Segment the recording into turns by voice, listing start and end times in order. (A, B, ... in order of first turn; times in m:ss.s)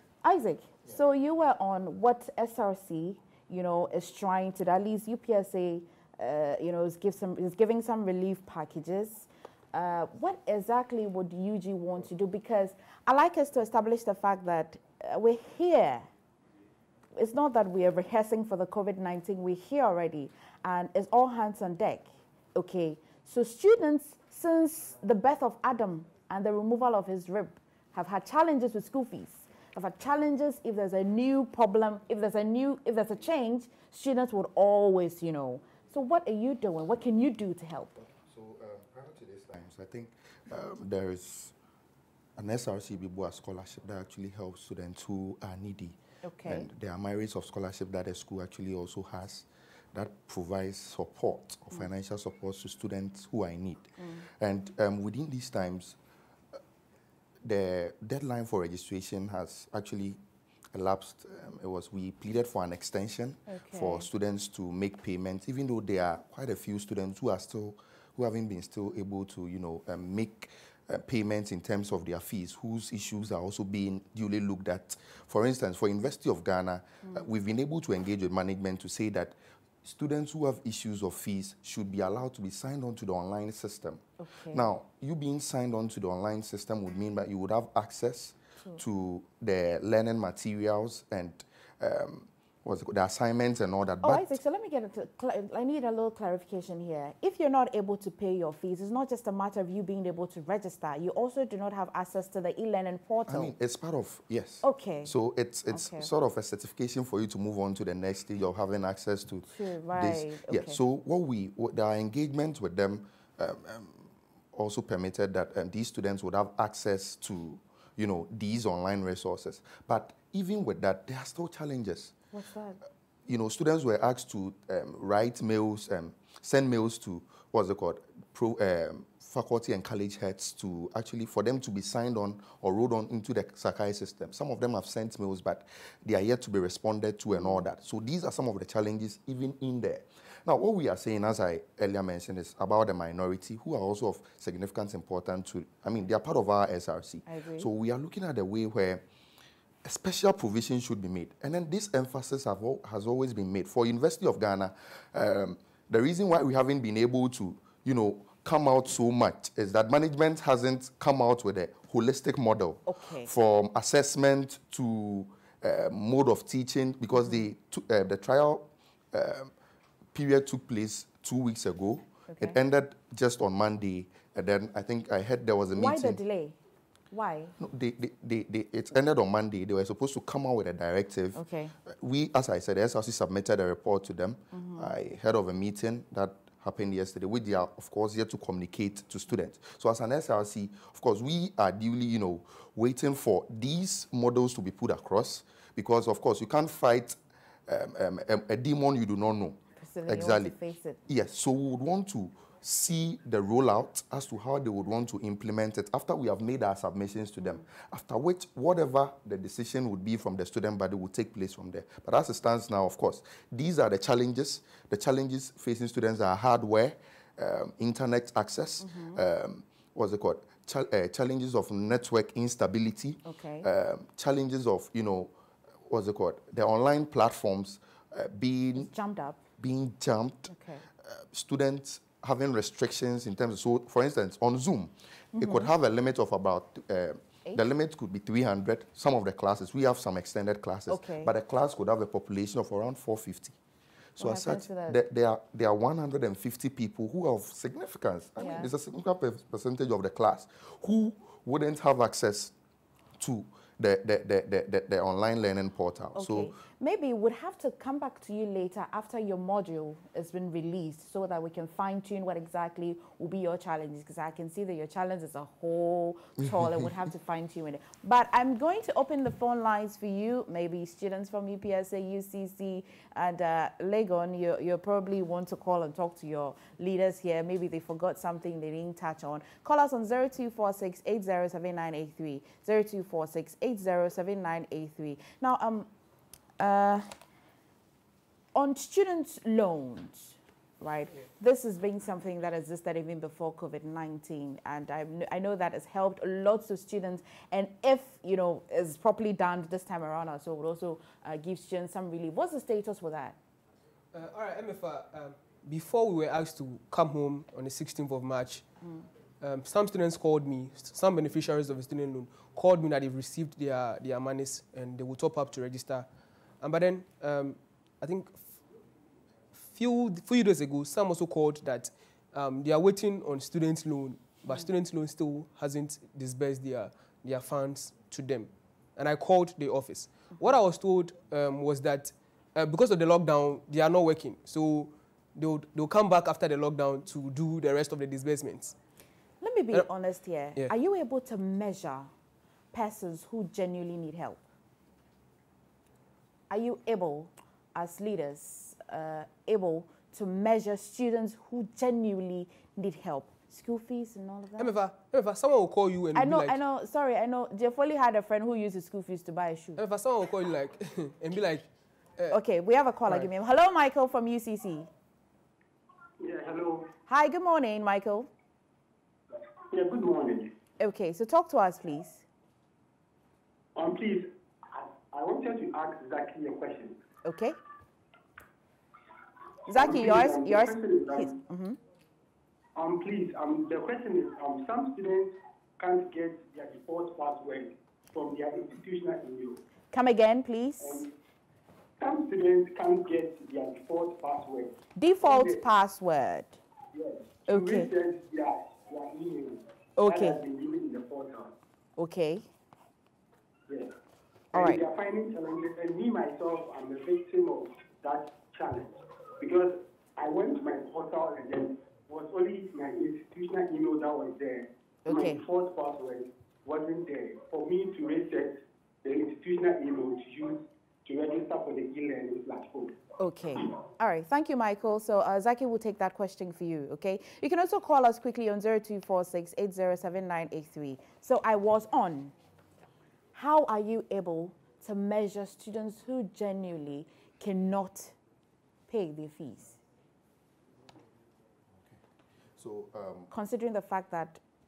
0:00.2-0:16.1 A
0:17.1-0:38.0 A
0:38.0-0:41.5 B
0:42.4-0:56.0 B
0:46.2-0:46.7 A
0:57.4-1:00.2 B
1:00.7-1:34.4 B
1:03.5-1:04.1 A
1:24.2-1:24.7 A
1:34.0-1:43.5 A
1:43.3-2:02.1 B
1:44.6-1:45.1 A
1:45.7-1:46.1 A
1:49.5-1:50.8 A
2:02.3-2:02.8 A
2:03.3-2:29.0 B
2:27.3-2:27.7 A
2:29.8-2:49.5 B
2:42.9-2:43.3 A
2:50.1-2:56.2 B
2:52.3-2:52.6 A
2:55.8-2:56.6 A
2:57.1-2:57.5 A
2:57.6-3:20.5 B
3:01.4-3:01.7 A
3:04.5-3:04.9 A
3:19.8-3:21.0 A
3:21.1-3:45.3 B
3:38.8-3:39.2 A
3:43.2-3:43.7 A
3:45.9-3:48.9 B
3:48.8-3:49.4 A
3:49.6-4:03.6 B
3:50.5-3:50.8 A
3:55.3-3:55.7 A
4:00.9-4:01.3 A
4:04.2-4:12.5 B
4:04.2-4:05.0 A
4:08.4-4:08.7 A
4:13.2-4:16.6 B
4:16.2-4:45.9 A
4:46.6-4:47.1 A
4:48.5-5:03.4 A
5:04.1-5:08.6 C
5:09.4-5:16.1 C
5:16.6-5:18.6 C
5:19.5-5:38.7 C
5:39.4-5:42.1 A
5:42.7-5:44.4 A
5:46.5-5:54.8 A
5:54.6-5:56.6 C
5:56.1-5:59.8 A
5:59.8-6:01.6 C
6:02.3-6:04.9 A
6:06.2-6:06.9 D
6:07.1-6:08.3 A
6:09.4-6:10.5 D
6:10.8-6:12.2 A
6:13.8-6:17.0 D
6:17.2-6:17.6 A
6:19.7-6:21.8 A
6:19.7-6:21.3 D
6:22.8-6:29.6 D
6:29.9-6:31.0 A
6:30.8-6:31.1 D
6:32.0-6:35.6 D
6:35.0-6:36.6 A
6:36.9-6:41.5 D
6:37.5-6:37.9 A
6:40.0-6:40.4 A
6:42.0-6:42.5 A
6:44.5-6:44.8 A
6:44.5-7:03.0 D
6:55.0-6:55.4 A
7:03.2-7:12.3 A
7:13.3-7:18.2 A
7:18.9-7:19.8 A
7:22.6-7:23.3 B
7:23.3-7:24.4 A